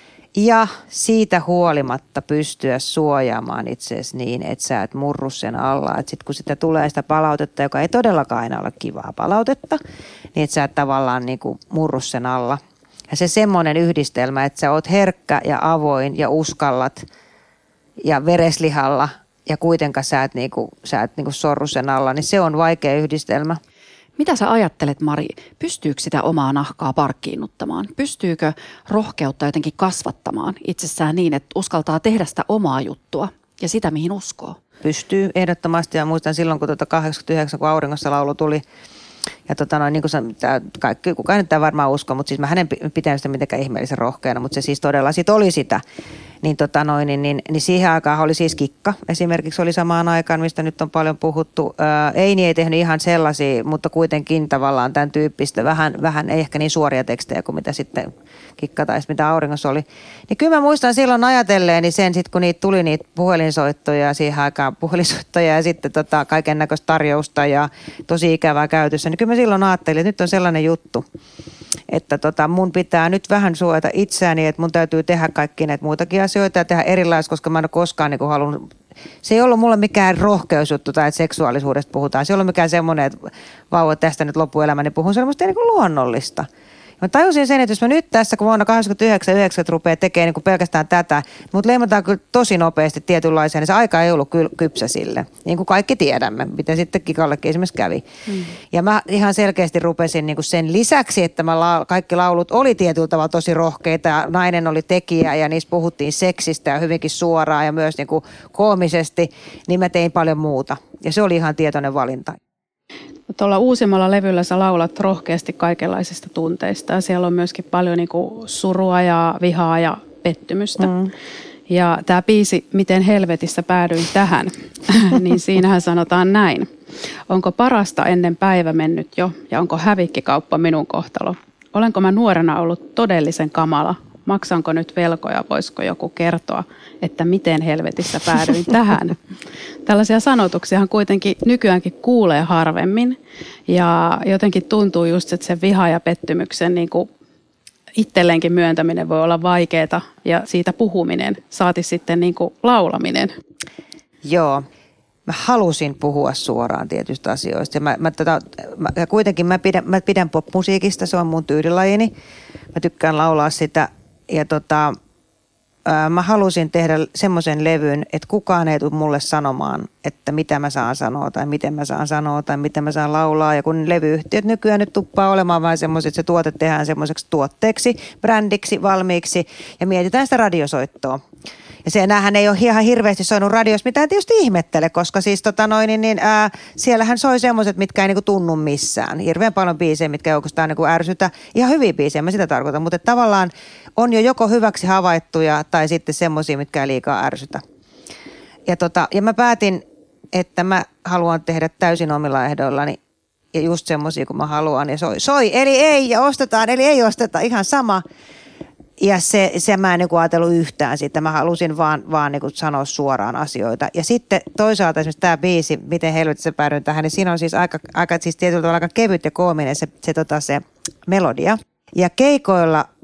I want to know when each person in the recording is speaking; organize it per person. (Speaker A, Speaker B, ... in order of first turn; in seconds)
Speaker A: 0.4-9.8, 10.3-17.1, 18.0-23.6, 34.8-38.6, 39.5-45.8, 46.4-71.0, 71.9-78.7, 79.2-86.5, 87.0-98.0, 98.7-112.4, 120.8-121.1, 154.2-154.7, 155.3-162.1, 162.7-165.0, 165.9-181.2, 181.8-197.6, 198.7-199.8, 200.3-203.0, 203.5-208.0, 209.0-222.9
Speaker B: 24.2-34.6
Speaker C: 98.3-98.5, 113.3-120.9, 121.7-126.7, 127.3-139.2, 139.9-143.2, 143.7-147.1, 148.0-153.3